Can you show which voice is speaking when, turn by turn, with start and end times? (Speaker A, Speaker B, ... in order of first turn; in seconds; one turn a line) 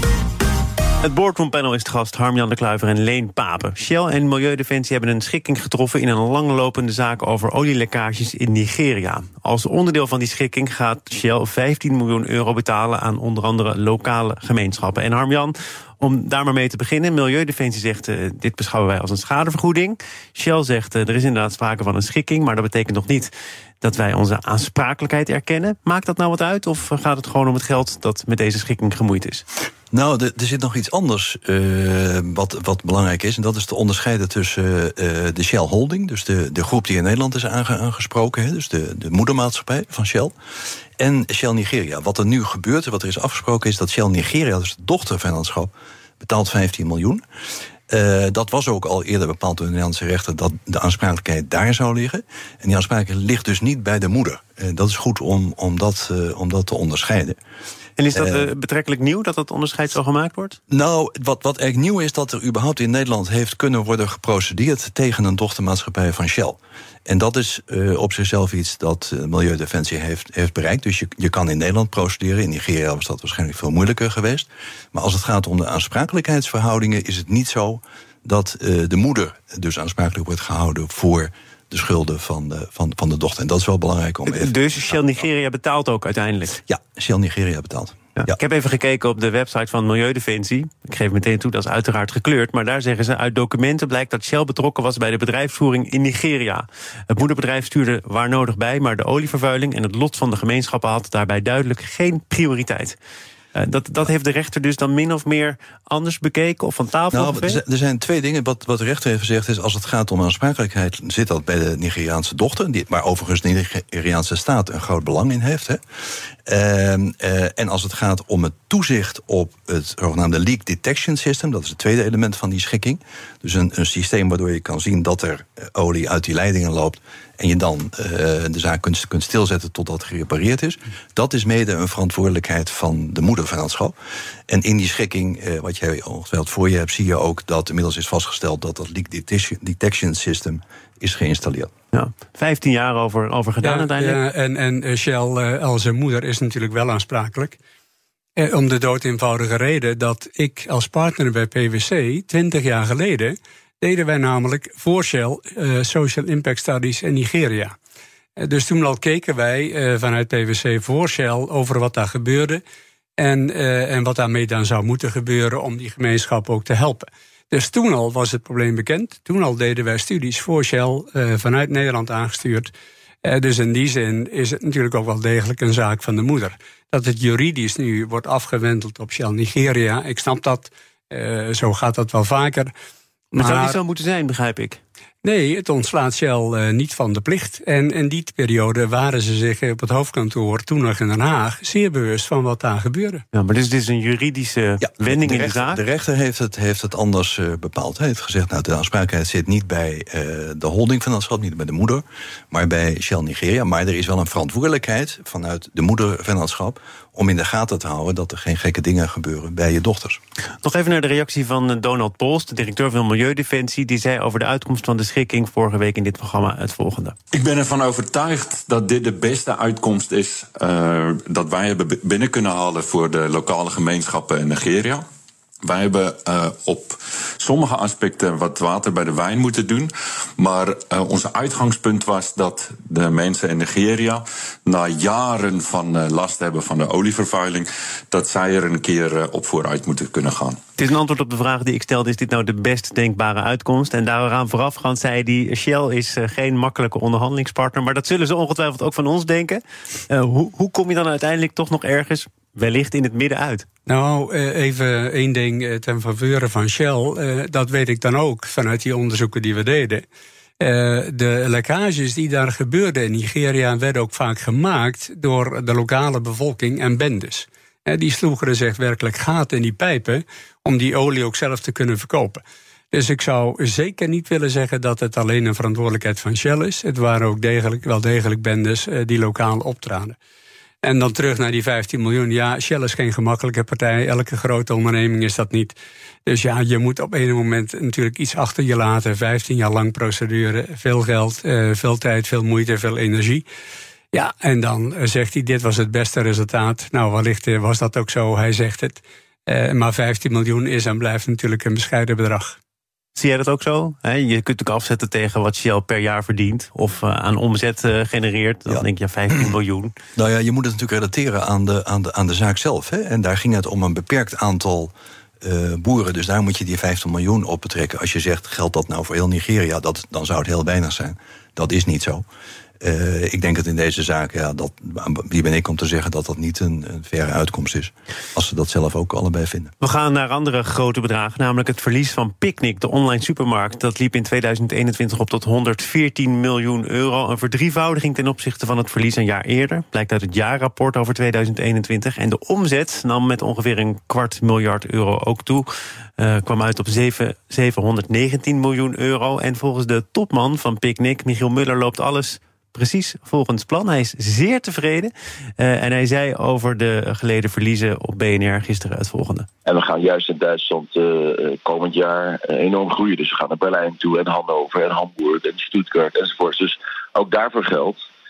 Speaker A: 1.0-23.3
Speaker A: 23.8-29.4
Speaker B: 29.9-40.3
Speaker B: 41.0-47.2
Speaker B: 47.9-57.4
Speaker A: 58.0-60.6
Speaker B: 58.1-58.5
Speaker B: 60.7-84.5
Speaker A: 84.3-86.6
Speaker B: 86.7-88.3
Speaker A: 88.2-103.0
Speaker A: 103.5-107.6
Speaker B: 107.1-115.8
Speaker B: 116.4-133.9
Speaker B: 134.5-141.7
Speaker A: 141.9-144.2
Speaker C: 143.6-147.6
Speaker C: 148.4-157.7
Speaker C: 158.4-162.6
Speaker C: 163.2-172.7
Speaker C: 173.2-182.7
Speaker C: 183.3-183.8
Speaker A: 183.4-184.8
Speaker C: 185.2-193.2
Speaker A: 193.3-195.8
Speaker B: 194.8-210.2
Speaker A: 210.6-217.2
Speaker D: 217.3-225.0
Speaker D: 225.6-240.6
Speaker A: 240.8-253.7
Speaker C: 253.9-260.0
Speaker C: 260.6-280.1
Speaker C: 280.8-285.7
Speaker C: 286.2-293.4
Speaker C: 294.1-302.6
Speaker A: 303.1-309.9
Speaker B: 308.7-309.5
Speaker B: 310.1-322.2
Speaker B: 322.8-329.7
Speaker A: 329.8-359.5
Speaker E: 359.6-368.0